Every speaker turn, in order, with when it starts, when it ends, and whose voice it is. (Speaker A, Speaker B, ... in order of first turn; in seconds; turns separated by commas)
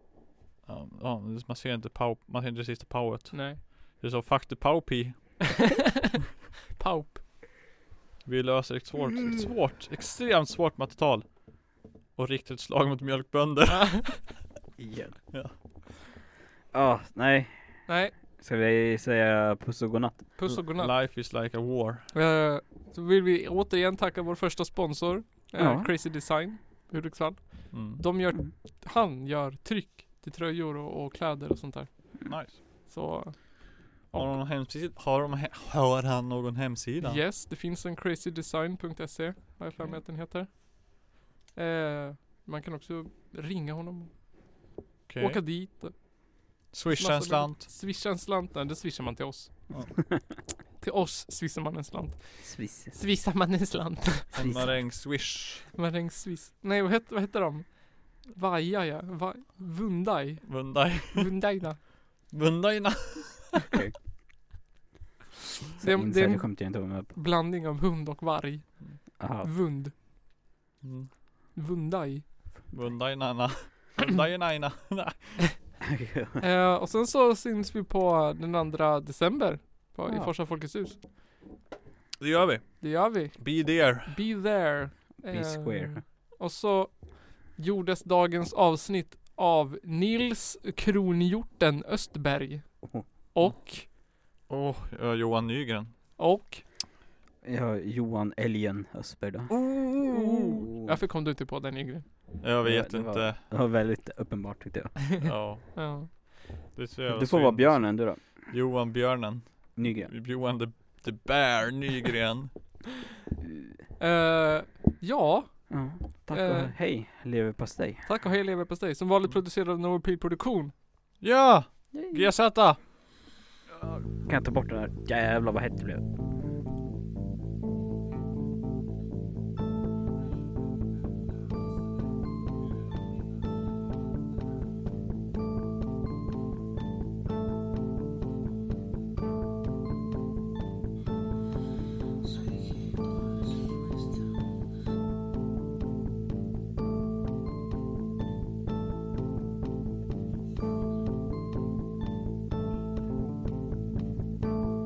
Speaker A: 0.7-5.5, Speaker B: 3.3-3.6, Speaker B: 5.5-6.1, Speaker B: 6.7-7.2, Speaker A: 8.2-11.4, Speaker A: 12.2-14.2, Speaker B: 13.7-14.0, Speaker C: 14.8-15.2, Speaker C: 16.7-17.5, Speaker B: 17.9-18.1, Speaker C: 18.4-20.2, Speaker B: 20.4-20.9, Speaker A: 20.5-22.1, Speaker B: 22.1-32.0, Speaker C: 25.6-25.9, Speaker A: 27.7-28.0, Speaker A: 32.3-32.6, Speaker B: 32.9-33.5, Speaker B: 34.1-34.4, Speaker A: 34.1-37.2, Speaker B: 37.0-40.5, Speaker B: 41.5-44.1, Speaker A: 45.1-45.4, Speaker B: 45.2-46.0, Speaker A: 46.7-47.7, Speaker B: 46.9-49.5, Speaker B: 50.8-54.4, Speaker C: 52.4-53.0, Speaker A: 54.3-55.7, Speaker C: 54.4-54.6, Speaker B: 55.7-61.8, Speaker A: 60.4-61.3, Speaker A: 62.3-63.6, Speaker B: 65.8-66.5, Speaker C: 65.8-67.1, Speaker B: 67.1-69.9, Speaker C: 69.2-69.5, Speaker A: 70.8-71.1, Speaker B: 71.5-72.2, Speaker A: 72.7-75.4, Speaker C: 75.8-76.4, Speaker B: 76.4-81.0, Speaker A: 82.2-84.2, Speaker B: 82.8-87.0, Speaker C: 85.3-86.0, Speaker B: 87.5-92.7, Speaker B: 93.3-93.9, Speaker A: 94.5-95.9, Speaker B: 96.2-96.6, Speaker C: 97.4-99.5, Speaker A: 99.5-100.6, Speaker B: 100.1-102.0, Speaker A: 102.4-103.4, Speaker C: 102.6-105.0, Speaker A: 105.2-105.7, Speaker B: 105.7-106.1, Speaker A: 106.7-112.5, Speaker C: 107.1-108.2, Speaker C: 109.8-110.1, Speaker C: 113.4-113.8, Speaker B: 114.0-115.5, Speaker C: 115.7-118.0, Speaker B: 116.3-116.7, Speaker B: 118.0-120.7, Speaker A: 121.2-122.8, Speaker C: 121.9-122.3, Speaker C: 123.7-126.2